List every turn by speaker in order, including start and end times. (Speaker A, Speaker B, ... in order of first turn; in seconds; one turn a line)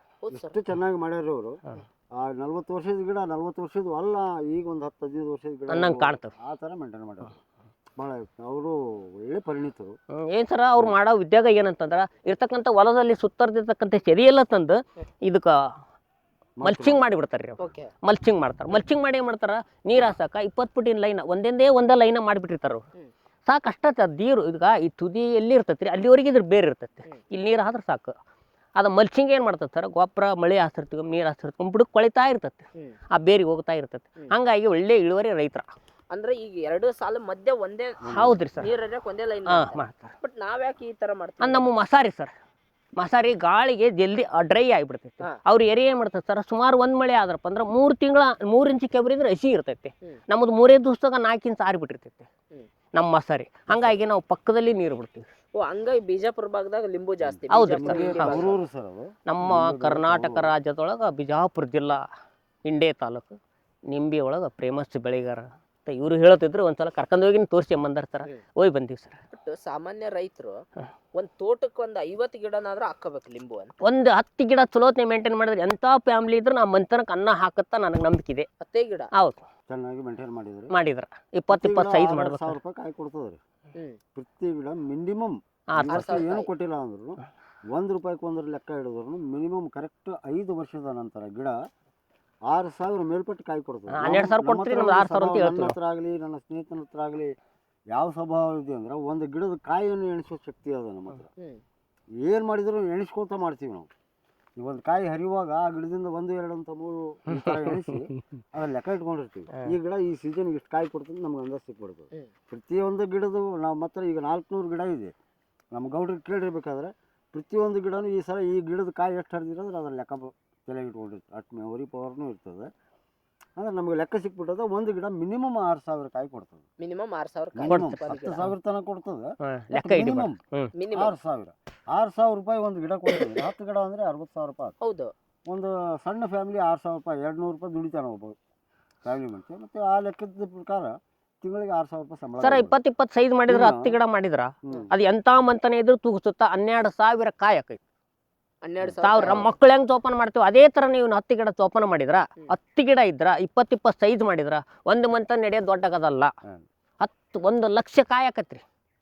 Speaker A: 0.2-0.6
Speaker B: 0.3-1.6
Speaker B: 2.2-7.3
Speaker C: 5.7-6.3
Speaker B: 8.0-9.9
Speaker C: 10.3-15.5
Speaker B: 16.6-17.0
Speaker C: 16.6-22.8
Speaker A: 17.6-17.9
Speaker C: 23.5-28.1
Speaker C: 28.8-35.7
Speaker A: 36.1-38.0
Speaker B: 38.0-38.7
Speaker C: 38.1-38.7
Speaker A: 38.6-41.7
Speaker C: 39.5-40.1
Speaker C: 41.4-42.3
Speaker C: 43.0-52.3
Speaker C: 52.9-55.2
Speaker A: 55.6-58.6
Speaker B: 57.2-60.5
Speaker C: 57.5-58.4
Speaker C: 59.3-62.0
Speaker C: 62.6-63.4
Speaker C: 63.9-69.2
Speaker A: 69.3-70.6
Speaker A: 71.2-73.7
Speaker C: 73.8-78.5
Speaker A: 78.6-79.1
Speaker C: 79.1-79.4
Speaker B: 79.7-80.7
Speaker C: 80.7-82.6
Speaker B: 81.5-83.4
Speaker B: 84.2-87.2
Speaker C: 85.7-86.2
Speaker A: 85.9-86.5
Speaker B: 87.7-91.5
Speaker B: 92.5-97.3
Speaker C: 93.9-95.8
Speaker B: 97.9-101.3
Speaker B: 102.2-103.9
Speaker B: 104.6-115.1
Speaker C: 107.3-108.2
Speaker B: 115.7-122.7
Speaker B: 123.6-126.6
Speaker A: 126.8-128.5
Speaker B: 127.5-130.4
Speaker C: 127.7-128.0
Speaker C: 129.4-130.7
Speaker A: 130.8-131.2
Speaker B: 130.9-134.8
Speaker A: 134.8-135.1
Speaker B: 135.5-138.4
Speaker B: 139.0-142.7
Speaker C: 142.4-147.8
Speaker B: 143.5-144.0
Speaker B: 144.7-144.9
Speaker A: 148.6-149.5
Speaker C: 149.0-156.3
Speaker C: 157.0-158.6